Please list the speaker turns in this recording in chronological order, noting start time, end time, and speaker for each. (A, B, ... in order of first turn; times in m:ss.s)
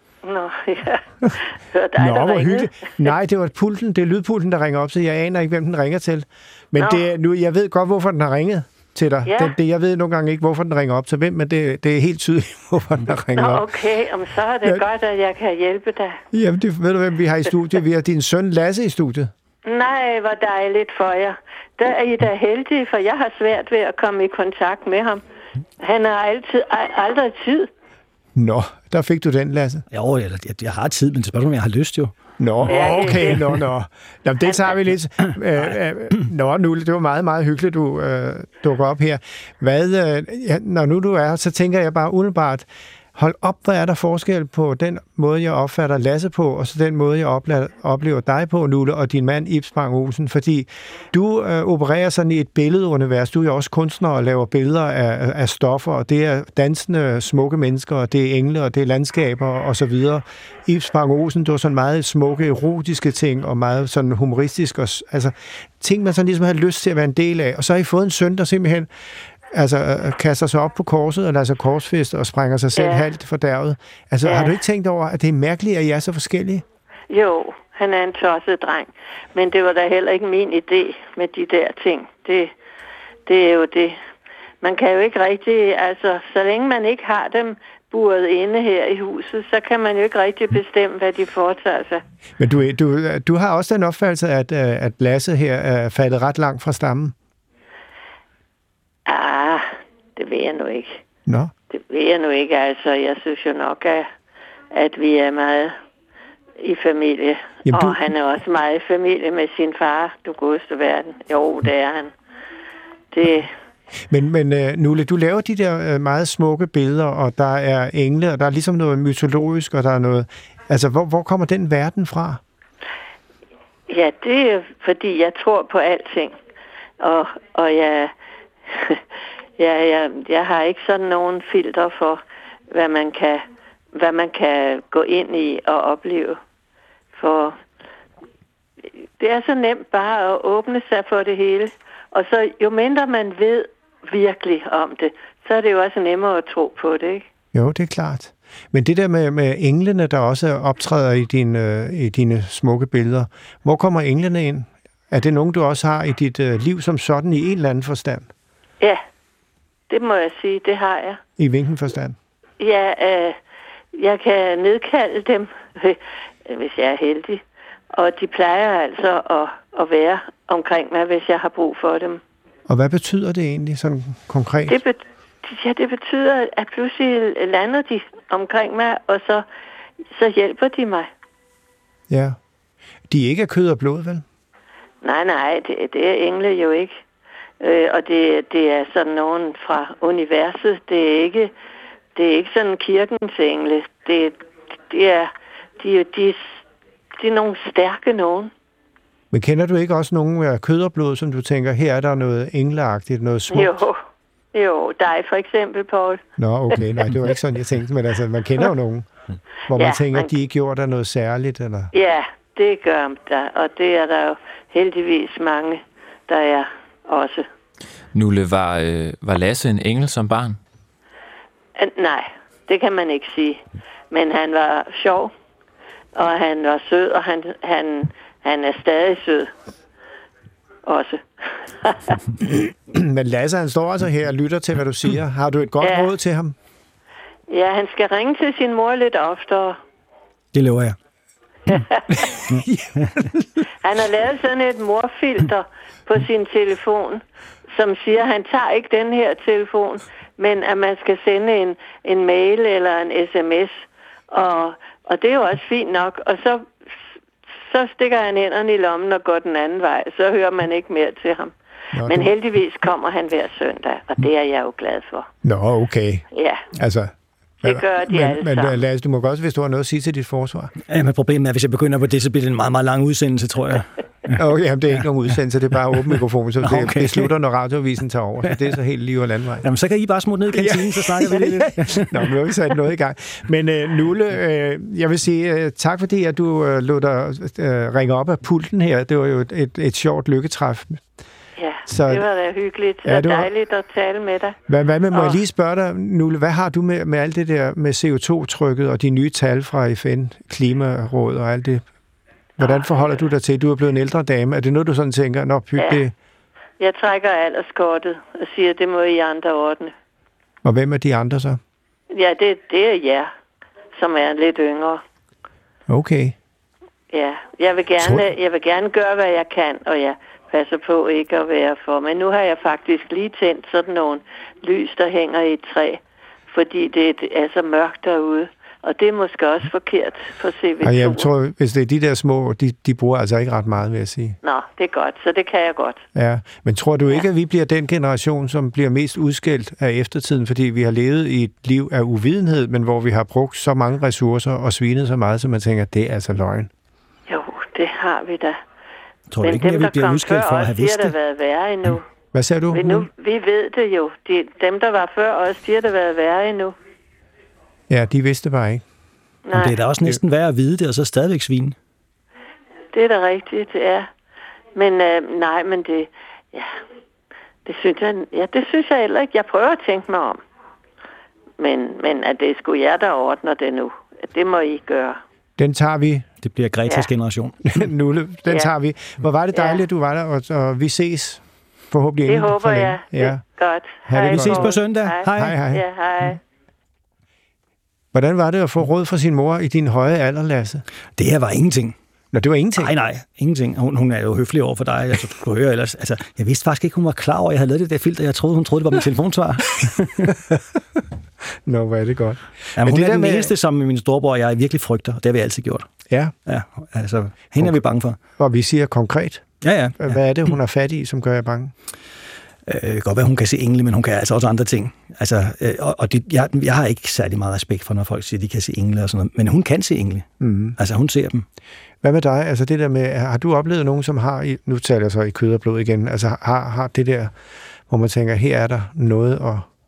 0:00.2-0:02.9 A
0:02.0-0:13.7 B
0:06.8-0:07.0 A
0:09.2-0:09.5 A
0:13.3-0:16.2 A
0:16.3-0:19.3 B
0:19.6-0:25.2 A
0:25.8-0:27.7 A
0:28.3-0:29.8 B
0:29.9-0:32.2 C
0:32.4-1:08.9 B
0:32.7-0:33.3 C
0:32.7-0:33.5 A
1:09.5-1:16.6 B
1:12.7-1:13.1 A
1:14.2-1:14.6 A
1:17.1-1:22.5 A
1:23.2-1:24.0 A
1:24.6-1:32.0 A
1:32.4-1:37.1 B
1:39.0-1:41.0 A
1:41.3-1:41.5 B
1:41.7-1:44.1 A
1:44.7-1:45.8 A
1:46.6-1:52.1 A
1:47.6-1:48.0 B
1:53.1-1:53.5 A
1:54.1-2:02.4 B
2:03.9-2:06.3 A
2:07.0-2:08.1 A
2:08.7-2:09.0 A
2:09.6-2:16.4 A
2:17.1-2:17.6 A
2:19.2-2:27.2 A
2:27.5-2:38.3 B
2:39.9-2:41.2 A
2:41.4-2:42.2 B
2:42.6-2:43.4 A
2:43.9-2:52.2 A
2:52.7-2:54.8 B
2:54.7-2:59.4 A
3:00.1-3:01.1 A
3:02.1-3:02.4 B
3:03.1-3:04.2 B
3:05.0-3:07.0 A
3:07.6-3:11.5 A
3:12.1-3:14.4 A
3:14.9-3:16.6 A
3:17.2-3:18.5 A
3:19.3-3:23.8 B
3:23.5-3:24.0 A
3:24.5-3:26.2 A
3:26.4-3:29.1 B
3:29.7-3:31.9 B
3:29.7-3:30.3 A
3:31.9-3:37.5 A
3:38.1-3:40.6 D
3:41.8-3:45.3 A
3:46.1-3:49.5 A
3:50.8-3:52.2 A
3:52.4-3:56.5 B
3:55.8-3:56.1 A
3:57.5-3:59.8 A
4:00.5-4:01.0 C
4:01.7-4:02.2 A
4:02.3-4:03.4 B
4:02.5-4:03.3 C
4:03.8-4:16.7 A
4:17.6-4:21.5 A
4:21.9-4:22.3 B
4:22.0-4:25.3 A
4:25.4-4:30.7 B
4:26.3-4:26.6 A
4:27.6-4:28.8 A
4:30.9-4:34.4 C
4:34.3-4:39.7 B
4:36.6-4:37.3 C
4:39.6-4:42.3 C
4:40.5-4:51.0 B
4:51.6-4:54.6 A
4:51.9-4:52.2 B
4:53.0-4:53.5 B
4:54.7-5:01.8 B
4:55.1-4:55.4 A
5:02.6-5:06.1 B
5:02.6-5:03.2 A
5:06.8-5:09.9 A
5:10.6-5:11.6 B
5:12.1-5:13.3 A
5:13.9-5:15.0 A
5:15.9-5:16.4 B
5:17.1-5:31.3 A
5:18.0-5:18.2 B
5:30.8-5:34.4 B
5:34.4-5:36.0 A
5:36.1-5:46.7 B
5:47.3-5:48.6 A
5:49.3-5:51.1 C
5:49.4-5:52.0 A
5:52.3-5:53.1 B
5:52.7-5:56.7 A
5:57.9-5:58.8 B
5:59.5-5:59.8 A
5:59.5-6:01.8 C
6:02.9-6:04.1 A
6:04.7-6:06.7 A
6:07.6-6:10.4 A
6:11.6-6:15.2 A
6:15.6-6:16.3 B
6:16.4-6:17.8 C
6:17.6-6:23.4 B
6:19.5-6:19.8 A
6:22.2-6:26.4 A
6:24.1-6:24.8 B
6:24.3-6:25.6 C
6:25.3-6:25.8 B
6:28.1-6:30.8 B
6:31.2-6:31.9 C
6:32.3-6:32.9 B
6:32.8-6:40.4 C
6:41.6-6:43.5 B
6:42.8-6:45.9 C
6:46.1-6:46.3 B
6:46.4-6:48.2 C
6:48.4-6:49.4 B
6:49.6-6:50.2 C
6:50.0-6:51.7 B
6:52.7-7:01.4 C
7:00.4-7:00.8 B
7:02.0-7:07.3 B
7:07.9-7:09.7 B